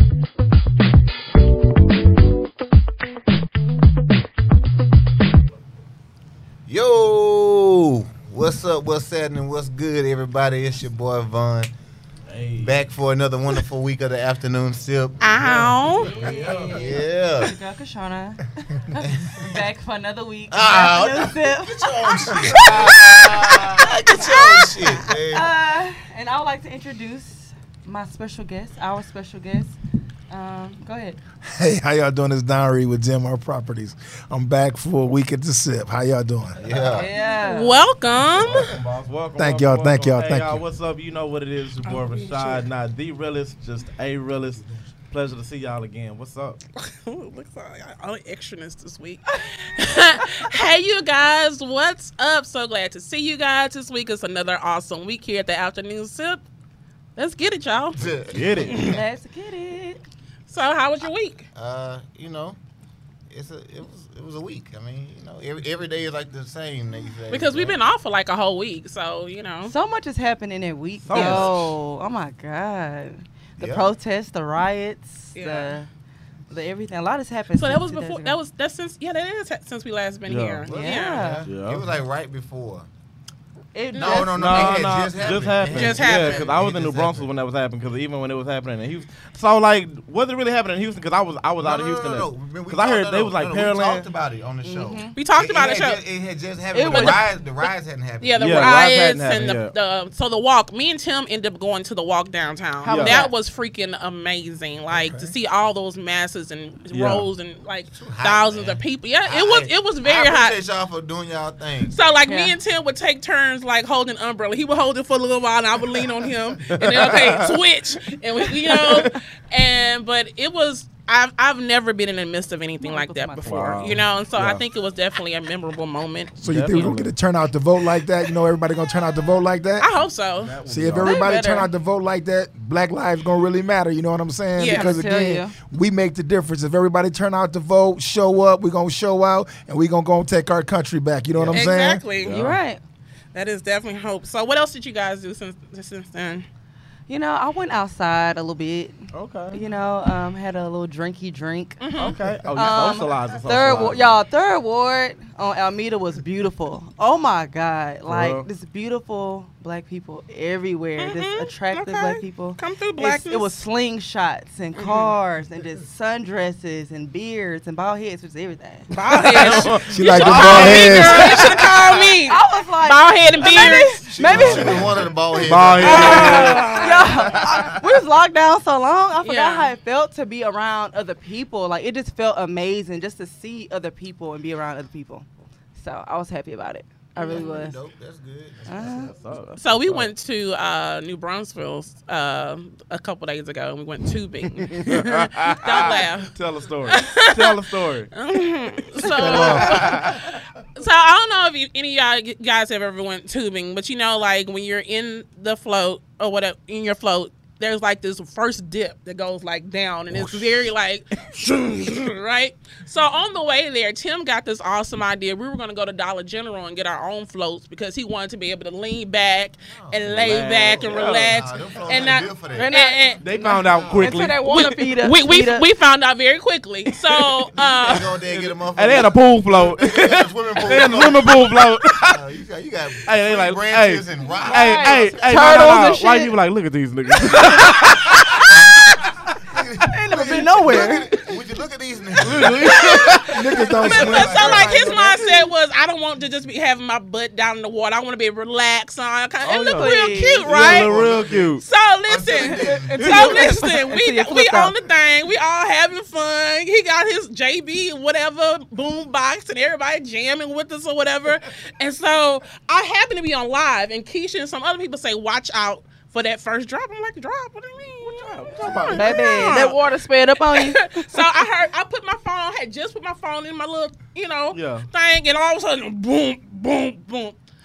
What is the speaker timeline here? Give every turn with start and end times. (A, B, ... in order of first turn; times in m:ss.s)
0:06.7-0:11.7 A
0:12.3-0:12.7 B
0:12.6-0:15.3 A
0:15.2-0:16.1 C
0:15.4-0:17.0 B
0:16.1-0:29.8 D
0:16.7-0:17.5 A
0:19.0-0:19.6 A
0:20.5-0:25.5 A
0:22.6-0:23.0 B
0:30.3-0:31.2 D
0:31.4-0:36.6 E
0:36.6-0:37.1 A
0:36.9-0:37.8 D
0:37.3-0:38.7 C
0:38.4-0:46.6 B
0:39.4-0:40.6 E
0:41.9-0:42.5 C
0:46.8-0:56.4 C
0:57.2-0:58.0 C
0:58.0-0:59.0 A
0:58.3-0:58.9 B
0:58.8-1:00.0 D
1:00.5-1:01.4 C
1:01.6-1:02.6 A
1:03.3-1:07.8 A
1:07.3-1:09.7 C
1:09.6-1:15.9 D
1:11.1-1:11.7 B
1:11.1-1:11.4 C
1:11.1-1:11.5 A
1:13.6-1:13.9 A
1:15.4-1:15.7 C
1:16.5-1:18.4 D
1:17.6-1:21.3 C
1:20.3-1:20.6 B
1:20.7-1:21.5 D
1:20.7-1:22.9 A
1:21.5-1:21.9 B
1:23.7-1:24.8 D
1:23.9-1:24.8 C
1:24.0-1:27.3 A
1:24.3-1:34.1 B
1:25.7-1:26.5 C
1:31.6-1:38.8 A
1:34.6-1:35.2 D
1:35.2-1:36.0 C
1:36.7-1:37.2 D
1:36.9-1:37.2 C
1:38.2-1:50.6 C
1:38.4-1:39.7 B
1:42.8-1:43.3 D
1:42.9-1:43.2 B
1:44.9-1:45.3 E
1:46.9-1:47.3 B
1:47.9-1:52.0 A
1:51.9-2:06.4 C
1:52.3-1:52.5 D
1:56.7-1:57.6 B
1:58.7-1:59.2 B
2:02.8-2:04.0 D
2:03.4-2:04.6 B
2:06.4-2:07.1 B
2:06.4-2:09.9 E
2:09.8-2:10.5 C
2:10.4-2:11.1 B
2:10.7-2:22.0 E
2:11.0-2:11.7 D
2:14.6-2:14.9 C
2:14.7-2:15.5 D
2:21.4-2:22.6 B
2:21.5-2:22.4 C
2:22.3-2:22.8 D
2:23.3-2:26.5 C
2:27.1-2:31.8 D
2:29.1-2:29.6 B
2:31.8-2:32.2 C
2:32.0-2:34.2 B
2:32.5-2:48.9 D
2:38.1-2:38.5 B
2:41.0-2:43.5 C
2:44.8-2:45.1 C
2:48.9-2:54.0 C
2:49.4-2:51.9 B
2:49.8-2:51.4 E
2:50.2-2:51.0 A
2:51.1-2:51.4 D
2:52.3-2:54.9 D
2:53.4-2:57.8 A
2:54.2-2:54.8 E
2:54.4-2:56.8 B
2:55.8-2:57.1 C
2:55.8-3:05.3 D
2:59.2-2:59.7 C
3:05.8-3:07.8 D
3:07.2-3:09.3 A
3:08.7-3:09.1 D
3:08.8-3:10.1 B
3:09.6-3:16.3 C
3:14.5-3:18.1 B
3:16.9-3:20.2 C
3:19.0-3:20.2 E
3:19.4-3:20.3 B
3:20.8-3:43.2 C
3:30.1-3:31.3 B
3:39.7-3:40.2 A
3:40.1-3:41.5 B
3:40.7-3:42.7 A
3:42.5-3:45.7 D
3:43.2-3:44.8 B
3:43.6-3:44.1 A
3:44.5-3:48.1 C
3:47.6-3:55.4 A
3:48.2-3:52.2 B
3:53.1-3:58.5 B
3:54.5-3:56.4 D
3:59.5-4:04.9 A
3:59.9-4:01.1 D
4:02.2-4:03.5 B
4:02.7-4:11.0 C
4:03.3-4:05.3 E
4:09.4-4:11.6 B
4:09.6-4:10.5 D
4:10.5-4:13.4 A
4:11.6-4:29.9 C
4:12.4-4:14.7 D
4:28.1-4:29.0 B
4:28.6-4:29.0 E
4:28.9-4:31.3 D
4:30.4-4:37.4 C
4:34.5-4:34.9 B